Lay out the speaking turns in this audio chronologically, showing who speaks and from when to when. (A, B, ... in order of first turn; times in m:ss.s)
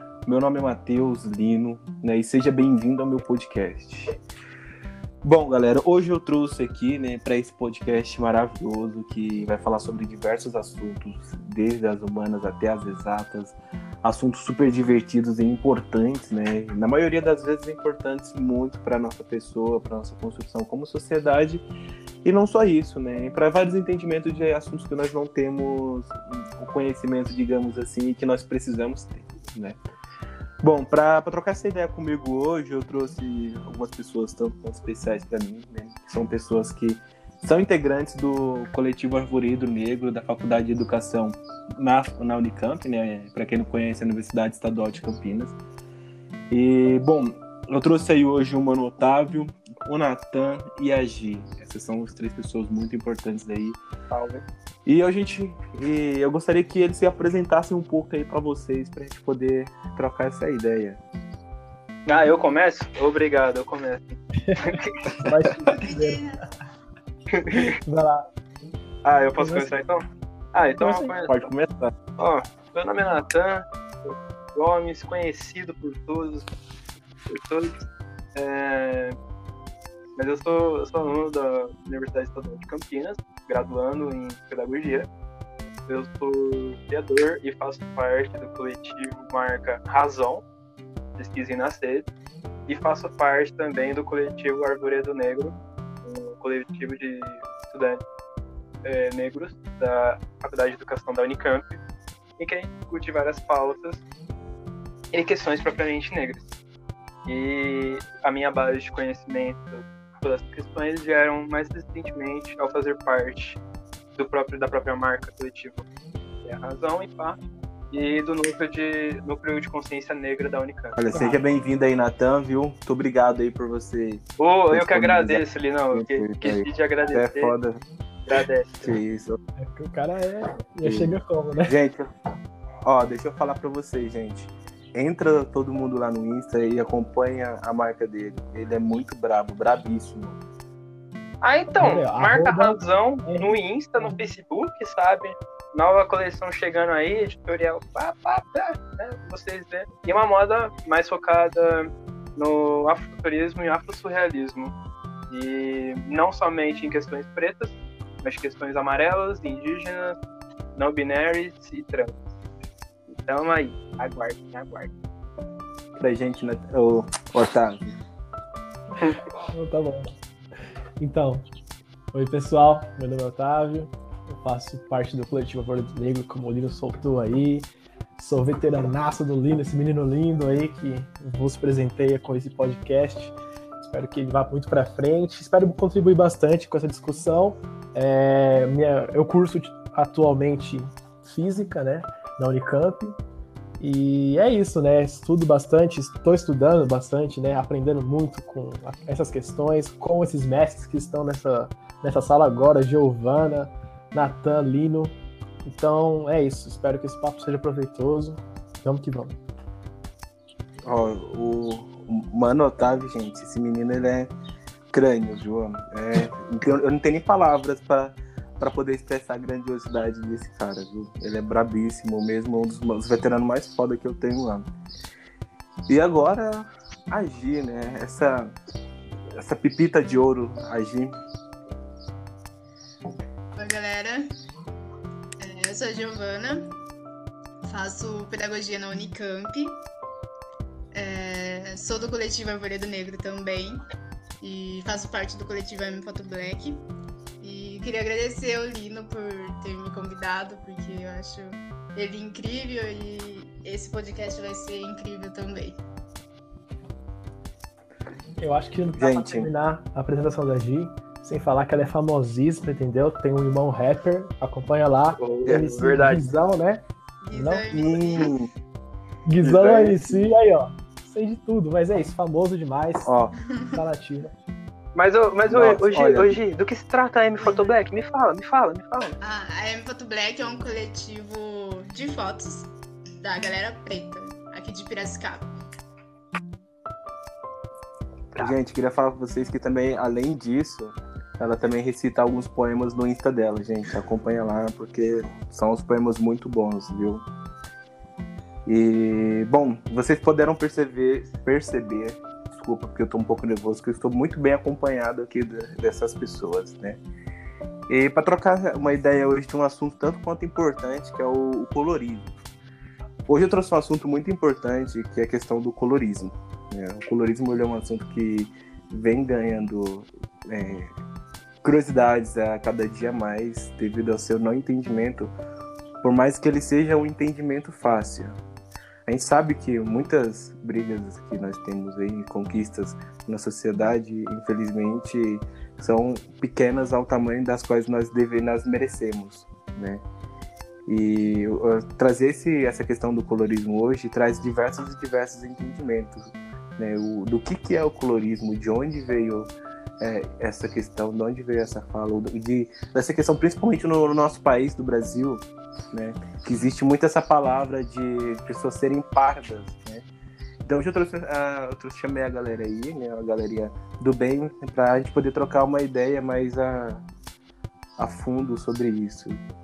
0:00.3-0:04.2 A
0:05.2-0:21.6 A
0:22.2-0:29.8 A
0:30.6-0:45.6 A
0:46.5-0:53.8 A
0:54.1-0:54.4 B
0:54.9-1:01.0 A
1:02.1-1:05.0 B
1:04.5-1:06.2 C
1:05.6-1:06.4 D
1:07.3-1:07.7 B
1:07.5-1:08.3 C
1:09.0-1:10.0 B
1:09.4-1:09.7 C
1:10.5-1:11.4 B
1:10.8-1:11.1 C
1:11.3-1:11.9 A
1:12.2-1:16.5 B
1:17.3-1:17.7 B
1:18.4-1:19.2 B
1:20.2-1:25.1 B
1:25.9-1:30.4 B
1:31.2-1:32.1 B
1:32.7-1:38.0 B
1:38.8-1:41.8 B
1:42.4-1:44.0 B
1:45.1-1:46.5 B
1:47.3-1:53.6 B
1:54.2-1:55.8 B
1:56.4-1:57.4 B
1:57.9-2:01.0 B
2:01.0-2:07.8 A
2:01.1-2:01.4 C
2:04.4-2:07.5 B
2:08.3-2:09.0 B
2:08.8-2:09.4 A
2:09.6-2:11.8 C
2:10.8-2:12.1 A
2:12.8-2:20.4 A
2:21.4-2:34.7 B
2:21.8-2:24.2 C
2:35.3-2:40.2 B
2:40.8-2:42.2 B
2:43.1-2:44.9 B
2:46.0-2:48.0 A
2:49.5-2:50.1 C
2:51.0-2:51.4 C
2:52.1-3:13.2 C
3:13.8-3:29.4 C
3:30.8-3:34.3 A
3:34.9-3:44.7 A
3:45.9-3:48.6 A
3:49.4-3:51.1 A
3:53.6-3:54.3 D
3:55.4-3:56.7 D
3:57.6-3:59.8 D
4:00.9-4:03.8 D
4:04.4-4:06.9 D
4:07.4-4:15.8 D
4:18.4-4:27.7 C
4:19.0-4:19.5 A
4:25.2-4:26.3 B
4:25.4-4:25.7 A
4:27.2-4:28.4 D
4:27.7-4:28.5 A
4:29.3-4:33.1 C
4:29.4-4:30.3 A
4:33.1-4:33.4 A
4:33.5-4:33.8 D
4:33.7-4:34.3 C
4:35.0-4:39.2 B
4:35.5-4:36.4 A
4:37.4-4:37.7 D
4:39.2-4:45.5 D
4:48.4-4:57.3 A
4:58.7-5:07.0 A
5:07.9-5:12.3 A
5:13.3-5:20.9 A
5:21.6-5:25.3 A
5:26.0-5:28.4 A
5:29.1-5:40.0 A
5:40.9-6:00.1 A
6:00.6-6:07.1 A
6:08.0-6:09.4 A